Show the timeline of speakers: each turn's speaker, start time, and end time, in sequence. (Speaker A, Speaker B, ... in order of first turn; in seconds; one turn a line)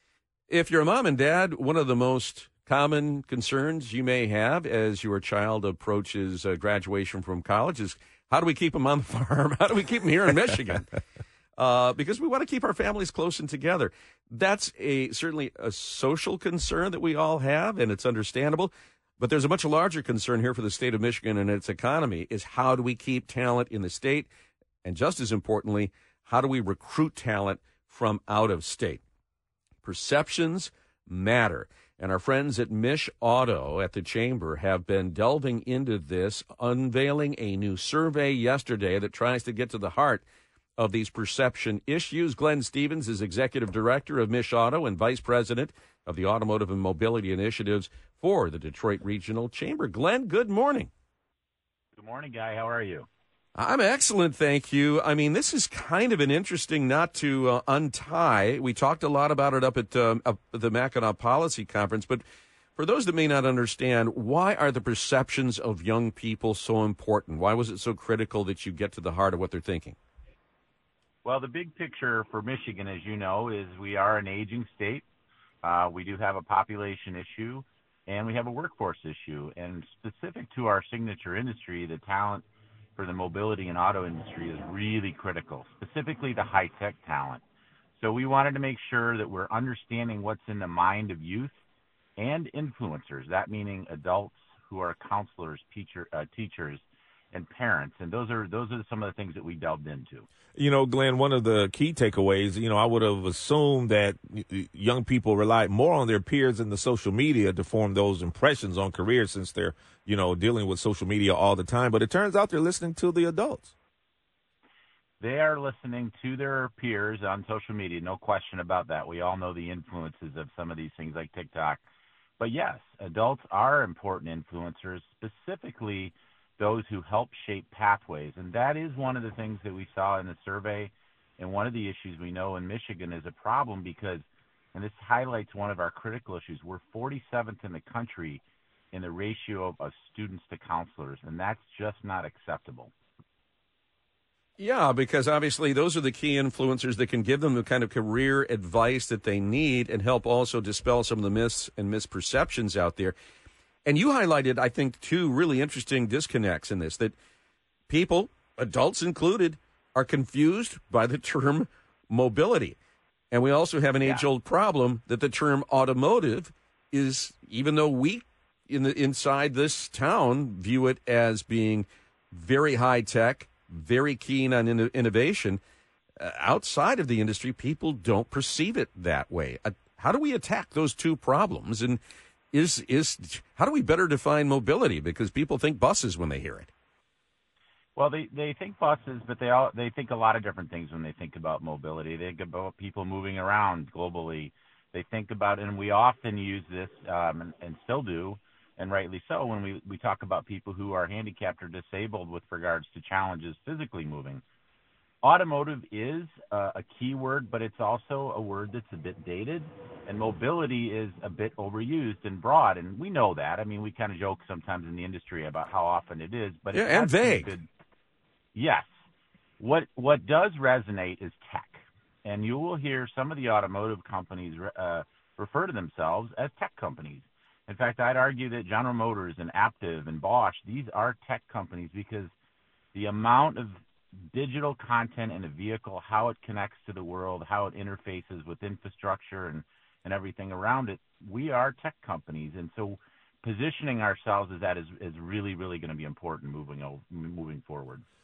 Speaker A: 0.5-10.9
Speaker A: 11.6-24.3
Speaker A: 24.8-29.0
Speaker A: 29.8-40.2
Speaker A: 40.8-50.9
Speaker B: 52.0-53.1
Speaker A: 53.5-62.2
Speaker A: 62.8-70.0
Speaker B: 71.2-75.0
Speaker B: 75.6-82.4
Speaker B: 83.0-87.4
Speaker B: 88.0-91.5
Speaker B: 92.2-100.3
Speaker C: 100.5-113.7
Speaker B: 115.2-121.8
Speaker B: 122.4-142.9
Speaker A: 144.6-153.1
Speaker A: 153.8-157.1
Speaker A: 157.9-162.8
Speaker A: 163.3-175.6
Speaker A: 176.2-182.0
Speaker A: 182.5-186.7
Speaker B: 187.9-204.4
Speaker B: 205.2-217.7
Speaker A: 216.7-217.5
Speaker B: 218.5-218.9
Speaker B: 219.6-232.3
Speaker B: 232.9-248.0